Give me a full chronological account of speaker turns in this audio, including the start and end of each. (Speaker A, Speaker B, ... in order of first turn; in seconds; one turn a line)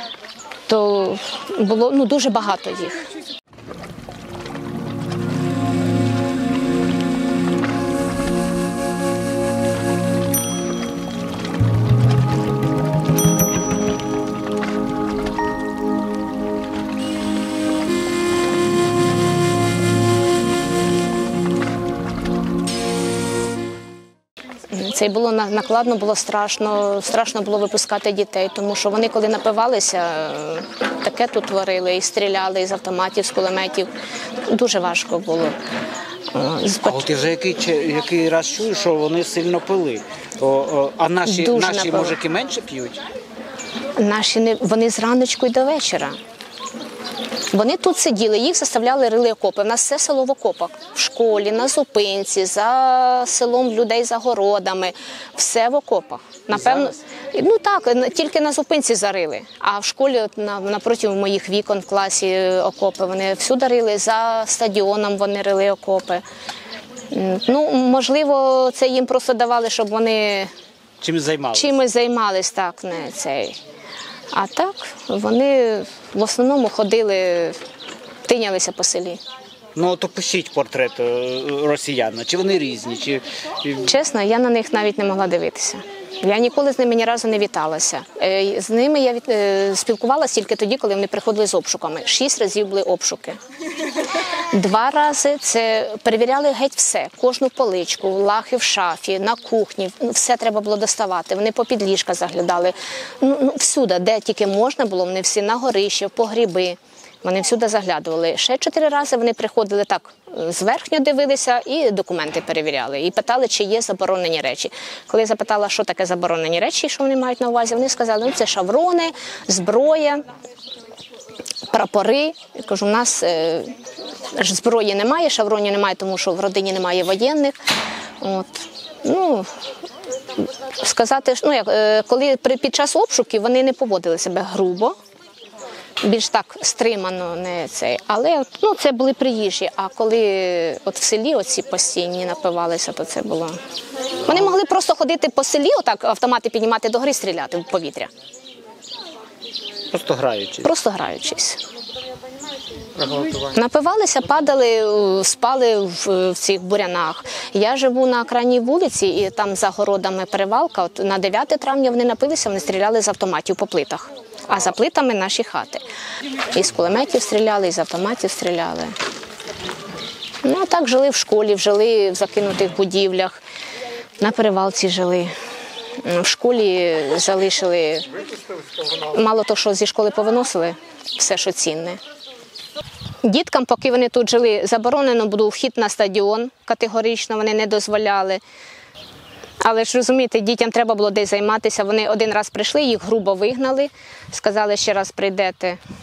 Speaker A: 0.7-3.1
Speaker A: 24.7-33.9
Speaker A: 34.5-35.6
Speaker A: 36.3-37.0
Speaker B: 36.9-43.0
Speaker A: 41.2-42.1
Speaker A: 44.0-46.2
Speaker A: 47.5-66.2
Speaker B: 56.6-56.9
Speaker A: 67.1-70.5
Speaker B: 71.0-71.8
Speaker A: 71.5-73.6
Speaker A: 74.3-77.6
Speaker A: 78.2-79.2
Speaker B: 79.8-83.9
Speaker A: 83.8-93.4
Speaker A: 94.0-120.2
Speaker A: 121.7-127.6
Speaker A: 128.2-129.5
Speaker A: 130.4-134.9
Speaker A: 136.0-143.6
Speaker A: 144.2-148.1
Speaker B: 149.9-150.7
Speaker A: 150.6-151.6
Speaker A: 153.3-165.8
Speaker A: 166.5-168.9
Speaker A: 170.4-173.4
Speaker A: 174.2-175.3
Speaker A: 176.0-178.2
Speaker A: 178.9-182.0
Speaker A: 183.2-188.4
Speaker A: 189.6-195.8